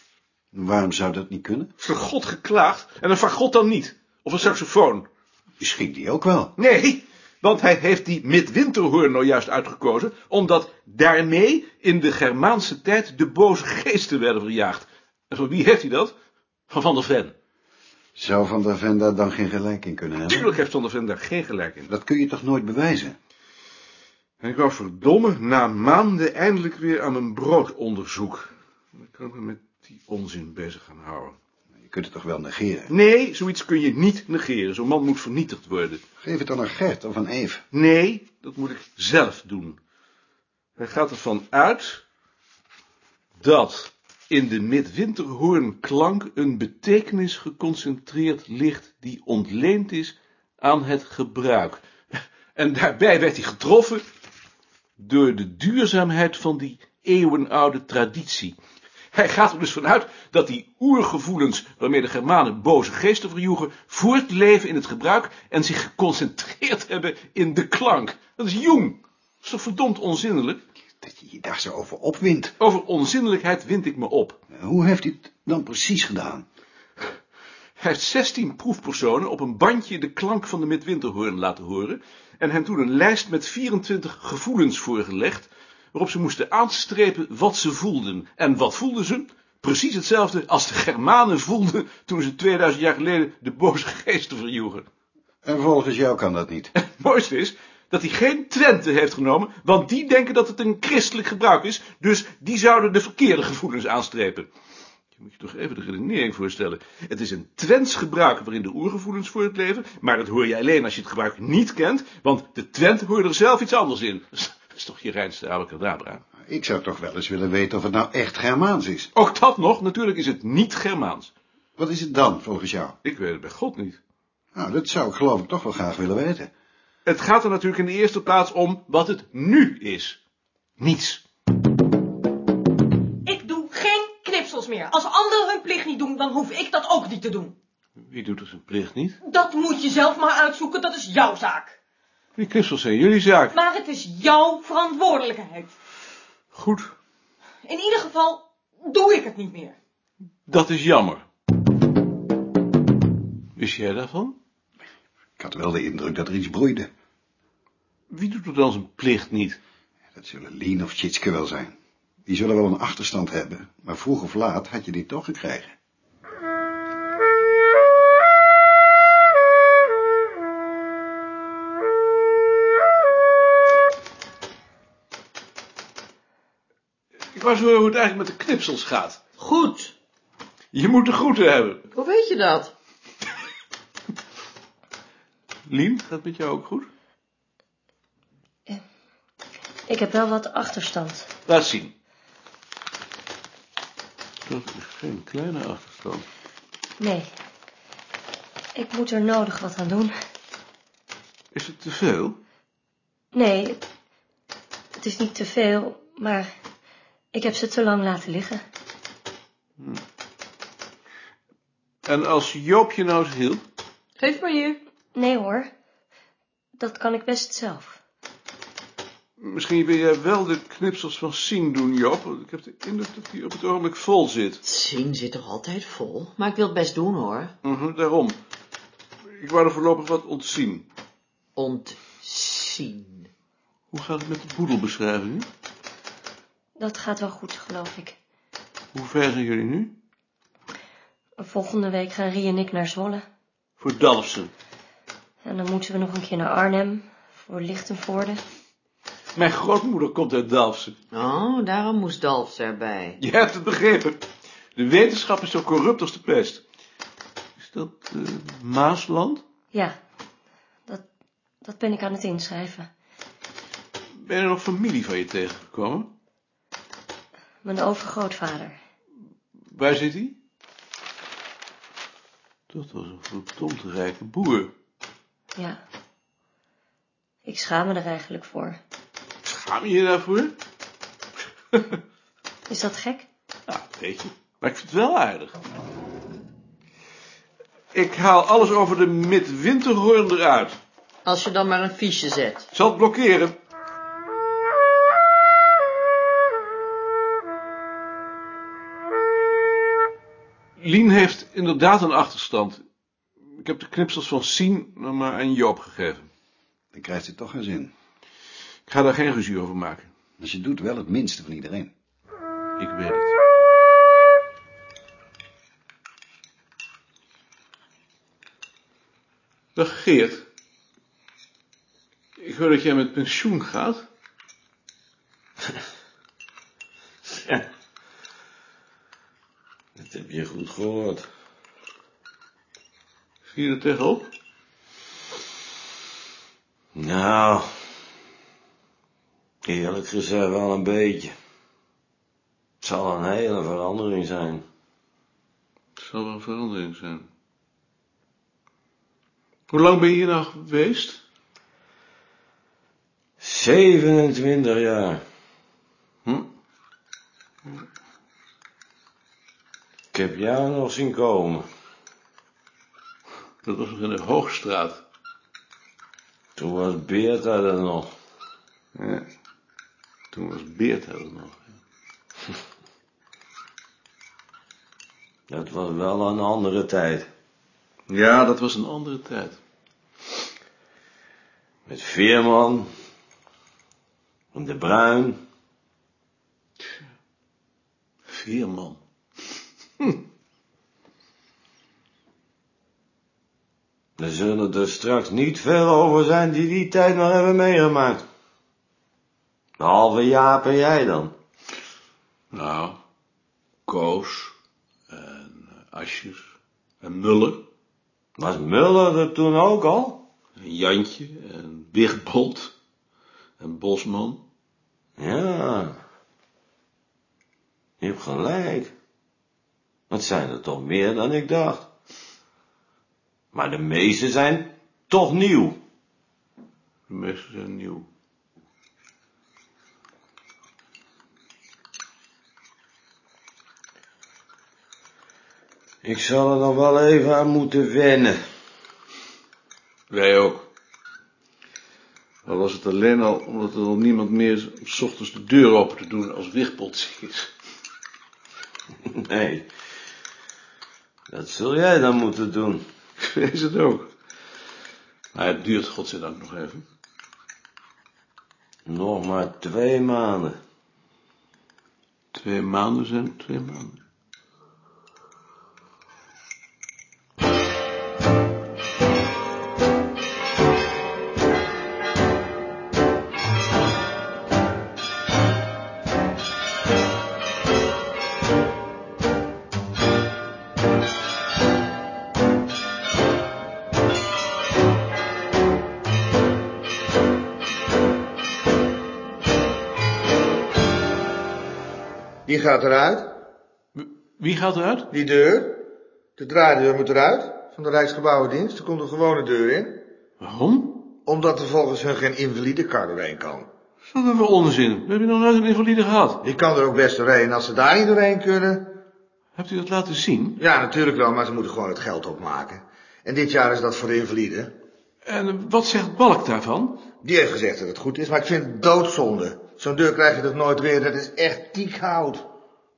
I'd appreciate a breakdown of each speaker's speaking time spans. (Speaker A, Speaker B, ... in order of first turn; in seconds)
Speaker A: 0.5-1.7, 5.6-6.5, 18.2-20.5, 21.9-23.2, 31.9-32.9, 36.2-37.6, 71.0-72.5, 74.5-76.5, 95.5-96.7, 116.4-119.1, 121.8-123.0, 124.5-126.5, 155.4-156.9, 160.2-161.7, 162.3-165.7, 306.9-307.9, 310.4-311.9
Speaker B: 1.8-5.1, 6.6-16.1, 16.7-17.3, 20.3-21.9, 24.4-31.4, 32.9-36.0, 37.7-39.8, 40.8-42.0, 43.4-51.8, 52.5-54.0, 55.0-58.6, 59.1-70.6, 72.6-74.4, 77.8-94.9, 96.8-104.5, 105.2-116.2, 119.2-121.3, 123.0-124.0, 127.1-130.2, 130.8-131.2, 138.0-139.2, 142.4-143.6, 146.5-146.9, 150.5-151.2, 153.6-154.4, 158.1-159.6, 177.3-179.2, 180.7-181.8, 185.7-186.9, 191.5-191.9, 194.5-196.3, 201.5-202.4, 212.1-213.6, 219.4-224.6, 227.6-228.4, 229.3-230.9, 233.9-235.5, 238.9-239.9, 243.8-244.5, 249.3-250.9, 253.2-254.2, 254.8-256.6, 257.6-259.4, 264.2-266.1, 269.7-270.4, 272.7-274.7, 279.4-280.6, 281.7-282.0, 283.7-285.6, 287.9-290.8, 292.7-293.6, 300.8-302.8, 303.5-306.3, 308.9-310.1, 312.8-313.3, 319.8-320.5, 322.4-324.1, 333.4-334.3, 346.0-347.3, 349.7-351.2, 356.2-356.5, 363.6-365.0, 368.9-369.3, 370.3-371.8, 378.1-379.6, 388.3-389.0, 402.5-403.0, 403.9-404.5, 405.1-407.6, 410.6-412.7, 413.6-414.4, 427.1-428.1, 440.1-440.7, 442.4-447.5, 453.2-454.1, 455.3-456.9, 462.3-464.0, 494.0-495.1, 500.4-501.0, 504.1-506.4, 509.6-510.6, 515.2-517.0
Speaker C: 133.2-137.6, 139.2-141.8, 143.5-145.7, 147.7-149.8
Speaker D: 179.4-179.9, 181.9-182.7, 214.2-214.8, 224.7-227.5, 231.6-233.3, 251.1-253.2, 291.2-292.6
Speaker E: 189.9-191.3, 197.0-197.3, 198.8-200.2, 203.3-203.8, 205.0-206.5, 207.3-208.6, 215.2-215.7, 216.8-218.0, 236.8-238.2, 241.4-243.2, 245.4-248.4, 261.6-262.9, 267.6-268.8, 275.6-275.8, 277.4-278.8, 282.7-283.3
Speaker F: 327.3-327.6, 330.0-331.2, 336.9-337.7, 339.6-341.3, 342.8-344.6, 353.4-355.2, 360.1-361.7, 366.6-368.1, 375.5-377.3, 381.9-382.9, 384.5-385.4, 394.2-398.2, 399.8-401.3, 408.4-410.3, 415.2-416.0, 418.0-418.9, 420.1-421.9, 423.5-425.8, 436.0-438.4, 449.2-449.7, 451.3-452.9, 458.9-460.6
Speaker G: 492.5-493.3, 495.1-495.8, 496.4-500.0, 501.3-503.7, 506.4-508.9, 510.6-514.7, 517.2-522.4